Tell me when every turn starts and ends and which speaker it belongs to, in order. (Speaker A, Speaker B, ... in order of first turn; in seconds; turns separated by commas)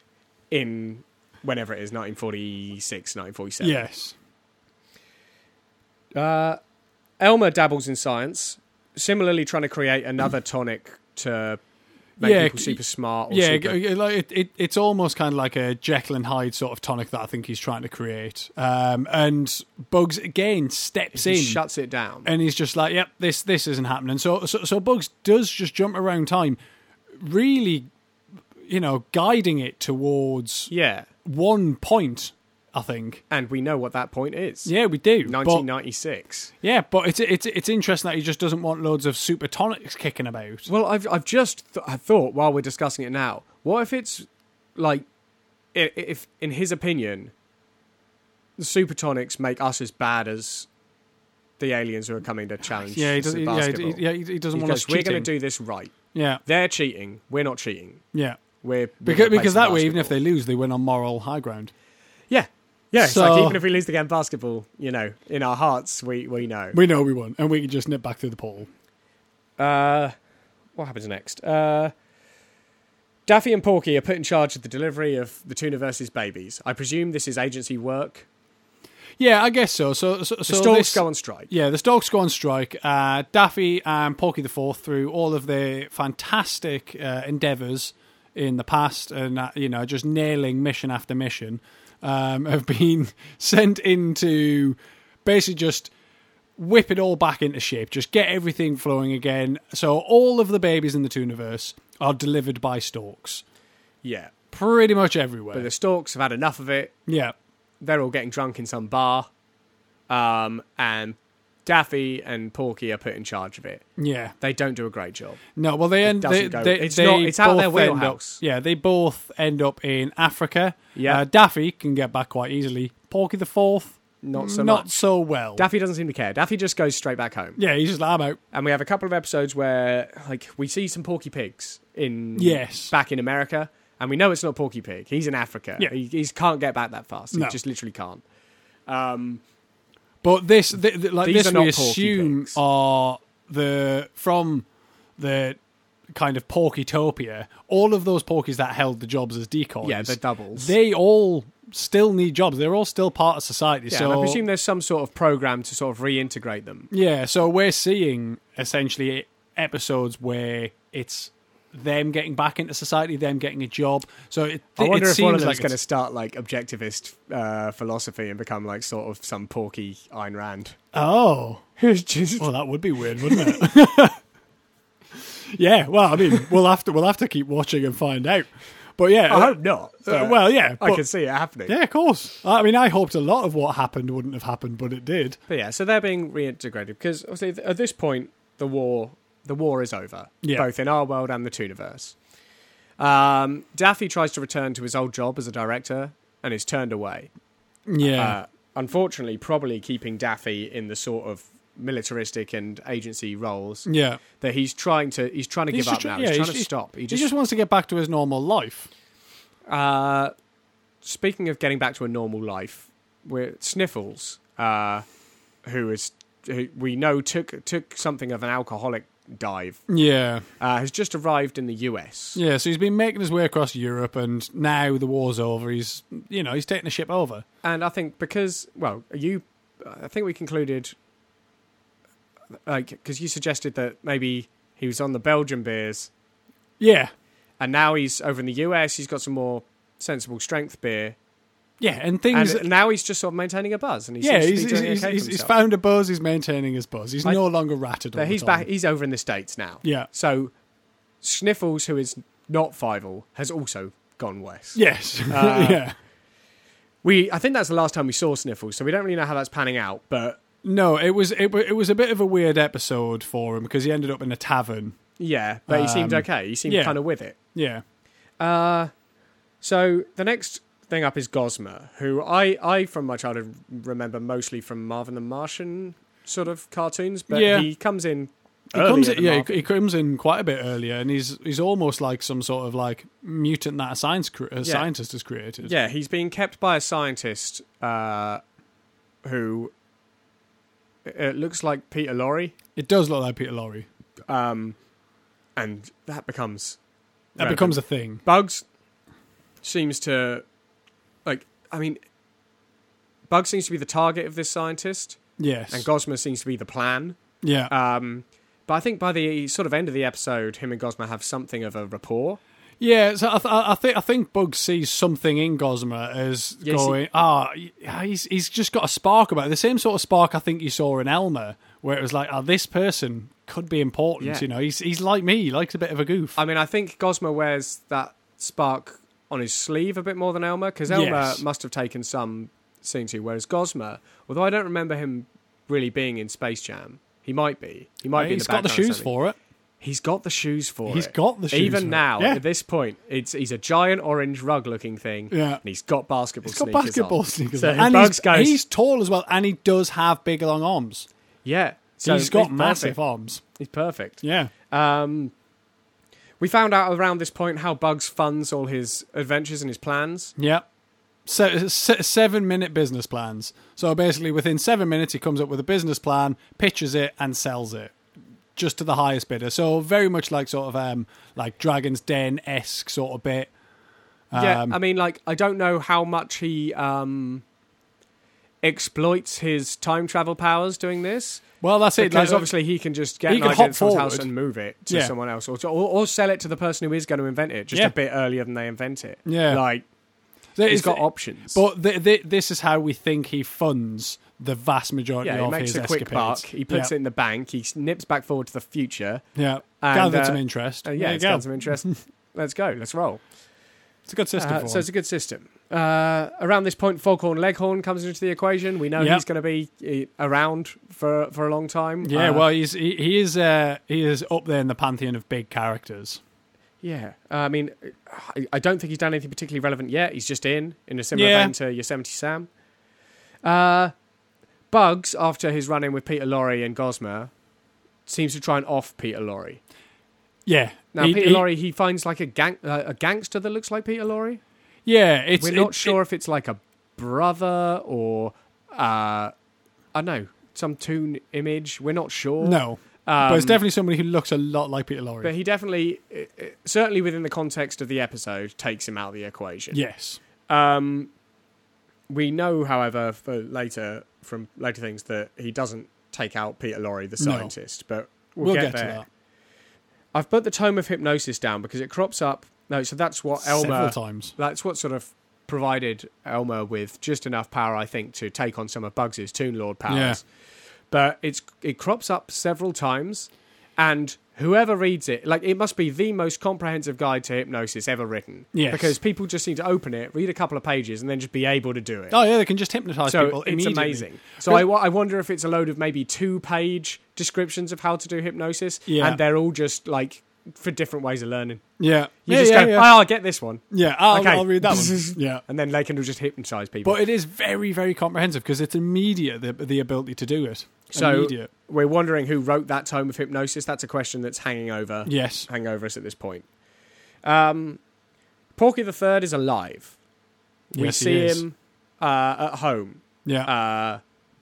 Speaker A: 0.5-3.8, Speaker B: 3.6-4.1, Speaker A: 6.1-6.6, Speaker A: 7.2-11.6, Speaker A: 12.2-13.8, Speaker B: 12.2-21.6, Speaker A: 21.1-22.3, Speaker B: 22.2-26.6, Speaker B: 27.1-27.9, Speaker B: 28.6-30.7, Speaker A: 30.7-31.1, Speaker B: 31.2-33.2, Speaker A: 33.3-34.7, Speaker B: 34.6-35.6, Speaker A: 35.2-36.5, Speaker B: 36.6-40.7, Speaker A: 40.7-45.0, Speaker A: 45.7-47.3, Speaker A: 48.6-50.7, Speaker A: 51.6-58.0, Speaker B: 52.9-55.3, Speaker B: 56.1-56.4, Speaker B: 58.1-58.4, Speaker A: 58.6-60.1, Speaker B: 59.0-61.7, Speaker A: 62.3-66.8, Speaker B: 63.0-63.6, Speaker B: 66.7-68.7, Speaker A: 69.6-70.1, Speaker A: 70.8-71.9, Speaker A: 73.3-78.3, Speaker B: 79.2-95.9, Speaker A: 80.5-81.5, Speaker B: 96.6-103.4, Speaker A: 104.0-104.3, Speaker B: 104.5-105.7, Speaker A: 105.5-106.9, Speaker B: 107.1-107.3, Speaker A: 107.8-109.3, Speaker A: 110.1-113.8, Speaker B: 114.0-114.3, Speaker A: 114.4-115.4, Speaker B: 115.5-125.7, Speaker A: 116.0-118.4, Speaker A: 120.9-121.2, Speaker A: 124.2-125.0, Speaker A: 125.5-127.6, Speaker B: 127.6-128.4, Speaker A: 128.5-138.2, Speaker B: 132.3-132.9, Speaker B: 137.3-137.6, Speaker A: 138.9-139.4, Speaker B: 140.2-144.7, Speaker A: 141.2-142.6, Speaker B: 145.2-145.6, Speaker B: 146.1-154.4, Speaker A: 149.8-150.7, Speaker A: 153.9-156.9, Speaker B: 156.9-165.7, Speaker A: 164.8-170.8, Speaker B: 170.9-171.6, Speaker A: 171.8-172.5, Speaker B: 172.4-174.2, Speaker A: 173.2-173.6, Speaker B: 175.1-181.0, Speaker A: 179.3-181.7, Speaker B: 181.7-185.4, Speaker A: 185.5-192.2, Speaker A: 193.0-197.3, Speaker B: 197.9-198.4, Speaker A: 198.0-203.9, Speaker B: 203.8-204.2, Speaker A: 204.4-207.3, Speaker B: 205.7-208.9, Speaker A: 209.7-210.3, Speaker A: 211.0-215.0, Speaker A: 215.6-219.8, Speaker B: 219.9-220.4, Speaker A: 220.6-222.4, Speaker B: 222.3-227.4, Speaker A: 227.6-230.9, Speaker A: 232.7-236.1, Speaker B: 236.8-237.1, Speaker A: 237.6-241.2, Speaker B: 241.8-242.7, Speaker A: 242.3-245.5, Speaker B: 244.2-248.7, Speaker A: 248.1-250.5, Speaker A: 251.2-255.8, Speaker B: 254.7-255.9, Speaker A: 257.0-260.4, Speaker B: 260.6-265.0, Speaker A: 265.2-267.4, Speaker B: 265.7-267.0, Speaker B: 267.5-267.8, Speaker A: 268.4-268.9, Speaker A: 269.6-279.5, Speaker B: 277.3-277.7, Speaker B: 278.7-285.7, Speaker A: 285.6-288.4, Speaker A: 289.2-289.7, Speaker A: 291.1-292.5, Speaker B: 292.8-293.9, Speaker A: 294.3-294.8, Speaker A: 295.6-296.8, Speaker B: 297.4-298.2, Speaker A: 297.4-298.6, Speaker A: 299.6-300.4, Speaker A: 301.2-302.0, Speaker A: 303.3-305.2, Speaker B: 305.4-305.9, Speaker A: 305.7-312.4, Speaker B: 307.4-307.7, Speaker B: 312.8-326.4, Speaker A: 316.6-317.0, Speaker A: 324.2-324.4, Speaker A: 326.4-339.1, Speaker B: 330.9-331.4, Speaker B: 338.1-339.4, Speaker A: 339.8-348.6, Speaker B: 340.9-342.4, Speaker B: 345.3-345.6, Speaker B: 346.4-351.1, Speaker A: 351.4-353.0, Speaker B: 352.0-353.4, Speaker A: 353.6-355.3, Speaker B: 354.2-354.5, Speaker A: 356.4-360.3, Speaker B: 360.4-360.6, Speaker B: 361.2-367.9, Speaker B: 368.6-373.5, Speaker B: 374.3-374.8, Speaker A: 374.3-377.4, Speaker A: 378.6-389.9, Speaker B: 381.6-382.5, Speaker B: 383.3-384.3, Speaker B: 384.9-385.1, Speaker B: 389.2-389.6, Speaker B: 390.6-396.9, Speaker A: 390.7-391.6, Speaker A: 395.2-399.2, Speaker B: 399.4-401.9, Speaker A: 399.8-403.2, Speaker B: 404.1-404.9, Speaker A: 404.4-412.4, Speaker B: 409.0-409.2, Speaker B: 412.0-416.2, Speaker A: 416.8-422.5, Speaker B: 421.1-421.5, Speaker A: 423.4-423.9, Speaker A: 424.7-427.3, Speaker A: 428.1-429.6, Speaker B: 430.4-431.4, Speaker A: 430.9-434.4, Speaker B: 434.9-436.0, Speaker A: 435.4-439.3, Speaker A: 439.9-443.6, Speaker B: 442.4-445.3, Speaker A: 445.2-449.8, Speaker B: 449.7-450.2, Speaker A: 450.5-451.1, Speaker A: 452.1-459.0, Speaker B: 457.2-457.5, Speaker B: 458.4-459.0, Speaker A: 460.1-470.2, Speaker B: 463.4-464.3, Speaker B: 469.9-470.2, Speaker A: 470.9-482.2, Speaker B: 478.5-478.9, Speaker B: 482.1-484.6, Speaker A: 483.1-491.6, Speaker B: 488.9-489.2, Speaker B: 491.8-493.0, Speaker A: 492.2-497.0, Speaker B: 493.7-495.4, Speaker B: 496.8-501.5, Speaker A: 500.9-506.4, Speaker B: 505.1-505.5, Speaker A: 507.2-507.8, Speaker A: 508.6-509.9, Speaker A: 510.7-514.0, Speaker B: 510.8-511.4, Speaker B: 513.2-513.5